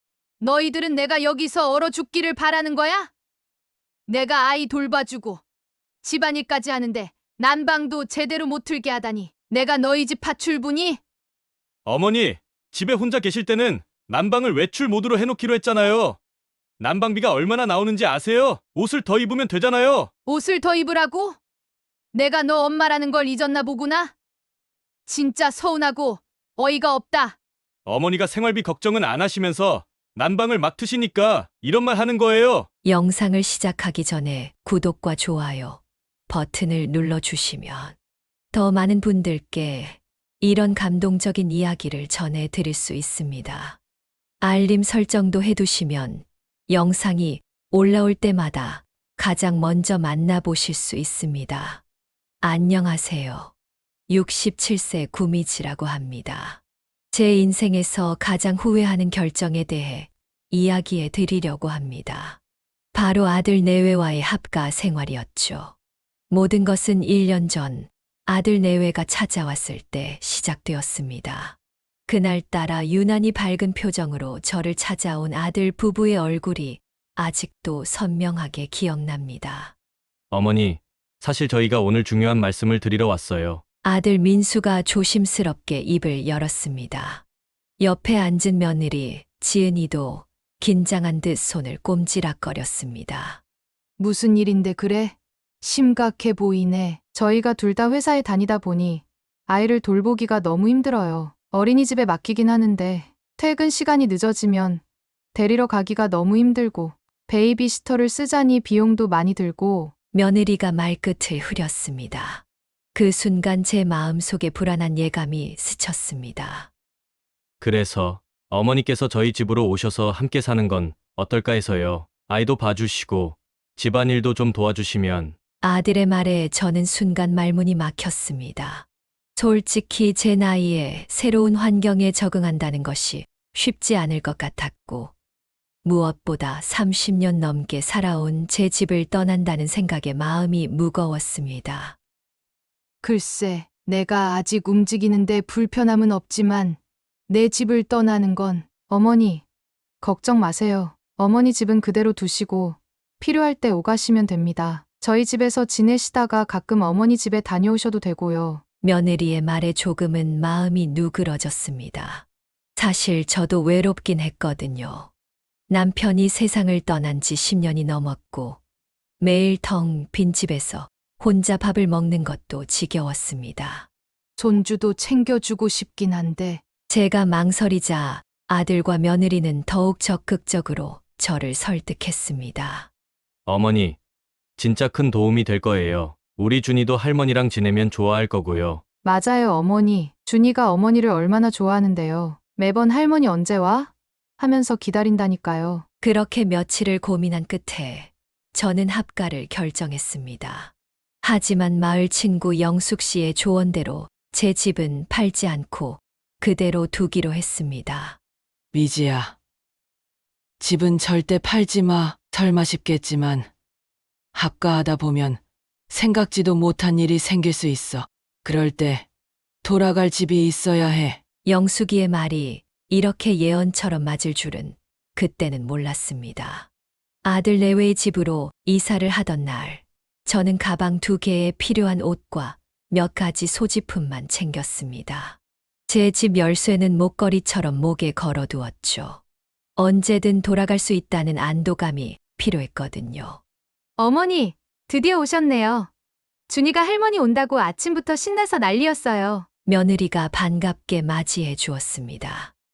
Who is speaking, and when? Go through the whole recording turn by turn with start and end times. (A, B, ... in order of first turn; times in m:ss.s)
0:00.4-0:03.1 A
0:04.1-0:05.4 A
0:06.0-0:11.0 A
0:11.9-0:16.2 B
0:16.8-0:20.1 B
0:20.3-0:21.4 A
0:22.1-0:24.1 A
0:25.1-0:27.4 A
0:27.9-0:32.7 B
0:32.8-0:38.0 C
0:38.5-0:43.8 C
0:44.4-0:51.8 C
0:52.4-0:53.5 C
0:54.1-0:56.6 C
0:57.1-1:02.4 C
1:02.9-1:05.8 C
1:06.3-1:19.7 C
1:20.3-1:23.6 B
1:23.8-1:27.2 C
1:27.8-1:33.4 C
1:34.0-1:44.8 A
1:45.3-1:49.9 A
1:50.1-1:52.4 C
1:53.0-1:56.7 C
1:57.6-2:05.4 B
2:05.6-2:15.1 C
2:15.8-2:22.0 C
2:23.0-2:26.8 A
2:27.3-2:29.4 A
2:30.0-2:38.6 A
2:38.8-2:45.1 C
2:45.7-2:48.6 C
2:49.2-2:53.9 C
2:54.4-2:56.6 A
2:56.9-3:02.9 C
3:03.5-3:04.0 B
3:04.6-3:08.8 B
3:09.0-3:15.8 A
3:16.0-3:28.2 C
3:28.7-3:29.4 D
3:30.6-3:33.5 D
3:34.3-3:39.1 D
3:39.6-3:41.2 D
3:41.5-3:46.7 C
3:47.2-3:59.2 C
3:59.8-4:03.4 C
4:04.0-4:05.9 A
4:06.5-4:09.5 A
4:09.7-4:12.5 C